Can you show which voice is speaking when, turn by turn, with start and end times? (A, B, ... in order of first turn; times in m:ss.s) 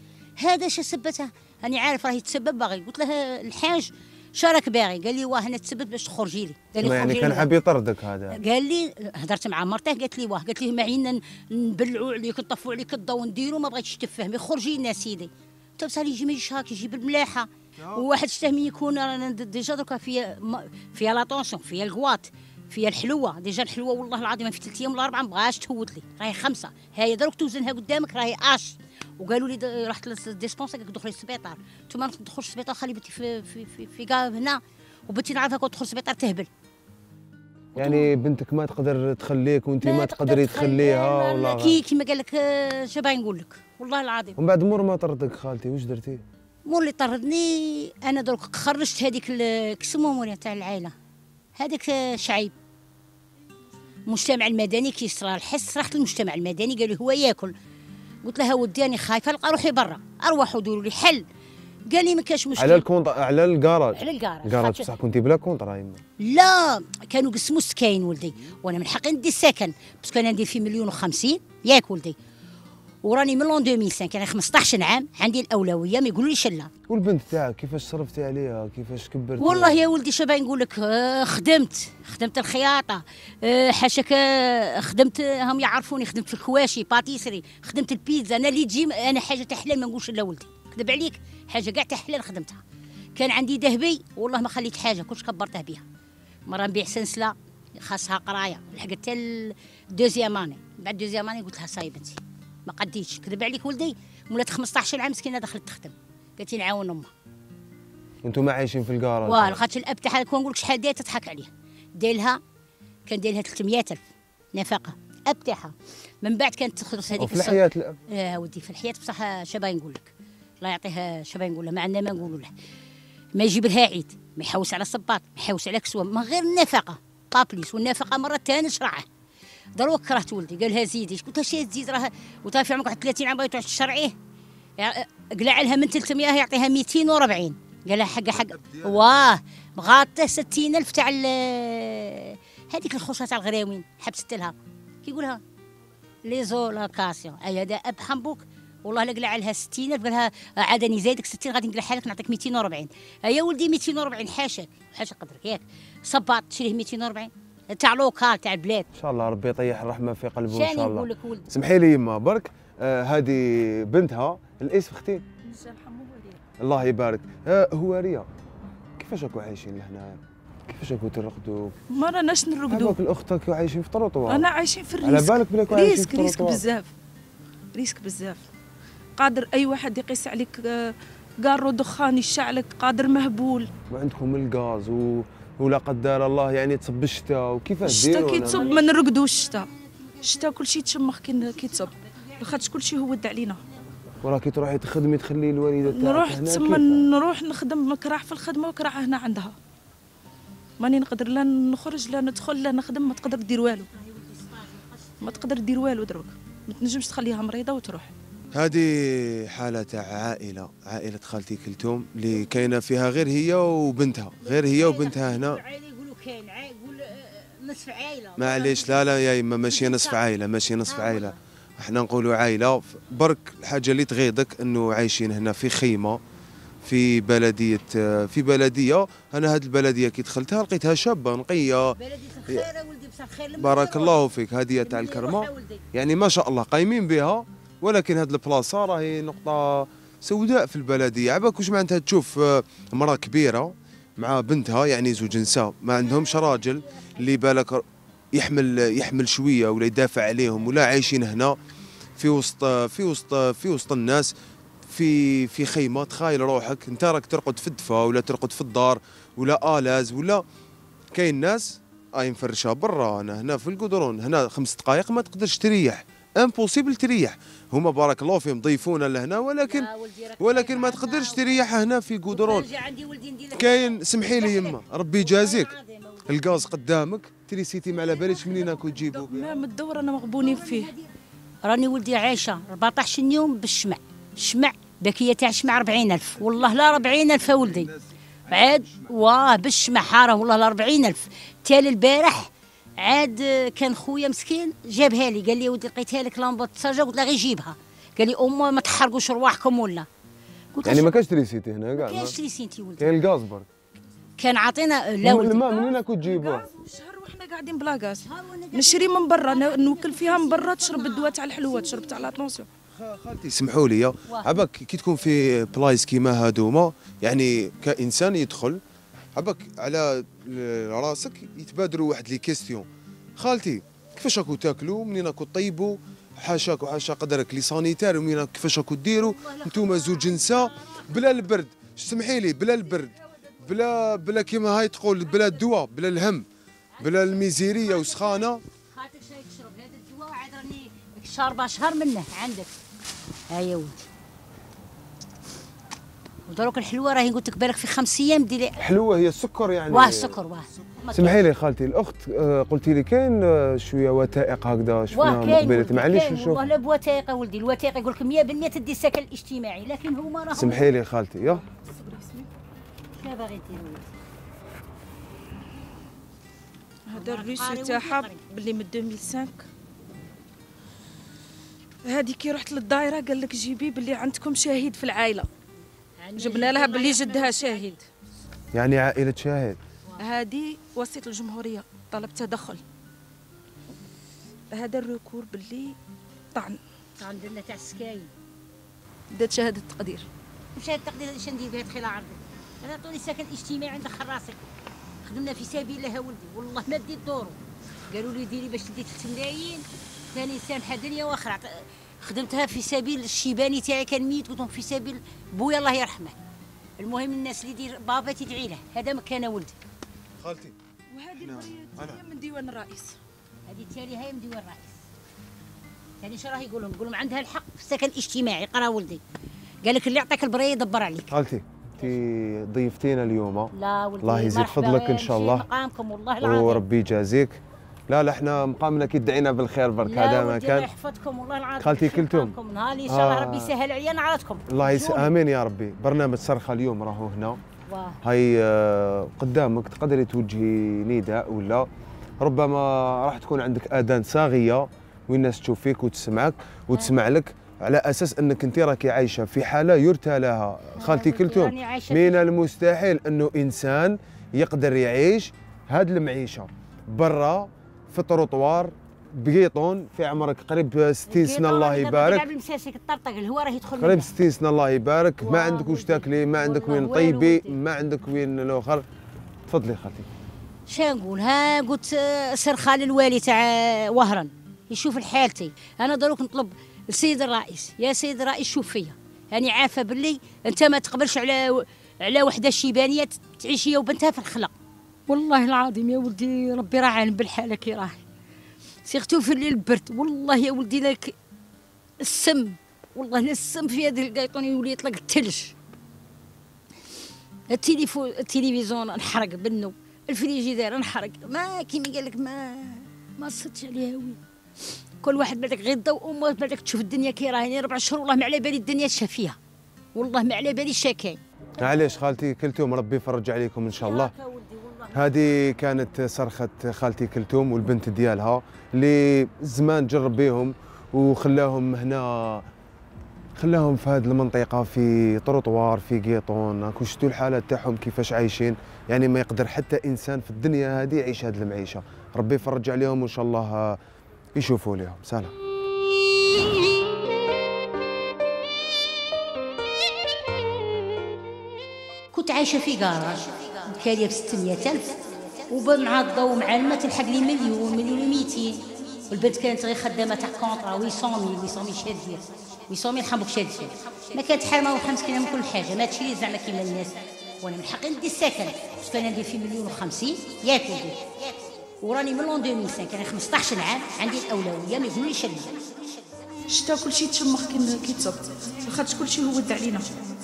0:00.4-0:07.5 A
0:06.8-0:08.4 B
0:08.3-0:36.5 A
0:17.8-0:18.0 B
0:37.8-0:41.8 B
0:37.8-0:38.1 A
0:39.8-0:44.4 A
0:44.4-0:46.2 B
0:46.7-0:50.9 A
0:51.6-0:52.6 A
0:54.1-0:57.5 A
0:58.2-1:01.2 A
1:01.9-1:02.8 A
1:02.6-1:06.0 B
1:03.9-1:04.9 A
1:06.2-1:12.2 A
1:13.0-1:16.7 A
1:16.9-1:19.8 B
1:19.4-1:32.6 A
1:33.2-1:35.8 A
1:36.5-1:47.1 A
1:48.2-1:49.6 B
1:49.2-1:52.4 A
1:53.1-1:54.0 A
1:54.6-2:02.5 A
1:57.2-1:58.0 B
2:03.4-2:09.1 A
2:09.8-2:14.2 A
2:14.8-2:25.4 A
2:18.3-2:19.1 B
2:26.2-2:38.9 A
2:39.0-2:45.2 B
2:40.5-2:41.5 A
2:45.5-2:46.4 C
2:46.6-2:48.3 B
2:49.0-2:51.8 B
2:51.9-2:53.0 C
2:52.7-2:54.5 B
2:54.3-2:56.9 C
2:55.0-2:56.6 B
2:57.7-2:58.4 C
2:59.2-3:03.7 C
3:03.9-3:08.8 B
3:07.8-3:09.7 C
3:08.5-3:08.8 A
3:10.2-3:13.6 C
3:11.7-3:12.3 A
3:14.2-3:17.1 B
3:15.9-3:19.6 C
3:20.8-3:23.9 C
3:23.6-3:25.5 A
3:25.2-3:28.1 C
3:28.5-3:35.6 B
3:34.4-3:39.2 A
3:38.4-3:46.2 B
3:39.7-3:40.2 A
3:40.9-3:41.4 A
3:46.8-3:52.0 B
3:52.0-3:54.2 A
3:53.6-4:11.6 B
3:54.8-3:55.8 A
4:12.2-4:14.3 B
4:14.9-4:20.4 B
4:21.1-4:29.9 B
4:29.6-4:31.5 A
4:30.4-4:32.7 B
4:32.3-4:36.4 A
4:33.6-4:35.8 B
4:36.3-4:39.6 B
4:38.1-4:39.0 A
4:39.0-4:40.9 C
4:40.4-4:41.1 A
4:41.6-4:47.9 A
4:47.4-4:49.1 B
4:48.5-5:00.1 A
5:00.7-5:01.1 A
5:00.8-5:02.4 B
5:02.0-5:03.2 A
5:03.0-5:03.7 B
5:04.4-5:05.8 A
5:05.2-5:06.7 B
5:05.9-5:12.7 C
5:08.1-5:12.4 A
5:13.0-5:18.8 B
5:14.3-5:14.6 A
5:19.4-5:22.9 B
5:23.4-5:36.5 B
5:29.2-5:31.2 A
5:37.0-5:42.7 A
5:37.0-5:38.6 B
5:43.5-5:44.0 A
5:46.5-5:48.8 A
5:48.8-5:50.4 B
5:49.9-5:51.4 A
5:51.1-5:56.7 B
5:55.1-6:00.9 A
6:00.5-6:01.6 B
6:01.7-6:02.5 C
6:03.1-6:04.1 A
6:07.1-6:09.6 C
6:07.1-6:08.5 A
6:12.0-6:15.5 C
6:16.2-6:18.0 A
6:16.4-6:18.0 C
6:18.7-6:19.8 B
6:20.2-6:22.8 C
6:24.7-6:26.0 C
6:26.6-6:26.8 C
6:27.2-6:28.3 A
6:29.3-6:30.3 C
6:30.8-6:34.6 A
6:35.2-6:46.4 A
6:47.0-6:49.8 A
6:50.4-6:50.8 B
6:51.1-6:53.2 C
6:51.4-6:52.2 B
6:53.7-6:55.0 A
6:56.2-6:59.2 A
6:59.8-7:01.3 A
7:01.3-7:05.7 B
7:03.7-7:06.8 A
7:06.4-7:07.6 B
7:08.1-7:10.9 B
7:10.0-7:15.3 A
7:11.8-7:12.6 B
7:13.1-7:13.7 B
7:14.7-7:17.6 B
7:17.9-7:18.2 A
7:18.2-7:21.9 B
7:22.4-7:42.5 B
7:31.0-7:32.4 A
7:41.3-7:44.4 A
7:44.0-7:49.0 B
7:45.4-7:47.8 A
7:49.7-7:50.3 B
7:50.9-8:04.7 A
8:05.3-8:08.2 A
8:09.0-8:11.4 A
8:12.2-8:15.7 A
8:17.7-8:24.4 A
8:25.2-8:29.6 A
8:30.2-8:31.4 A
8:31.8-8:34.3 B
8:34.0-8:35.5 A
8:35.1-8:42.6 B
8:43.6-8:54.0 B
8:54.6-8:55.5 B
9:02.3-9:25.8 A
9:26.7-9:30.2 C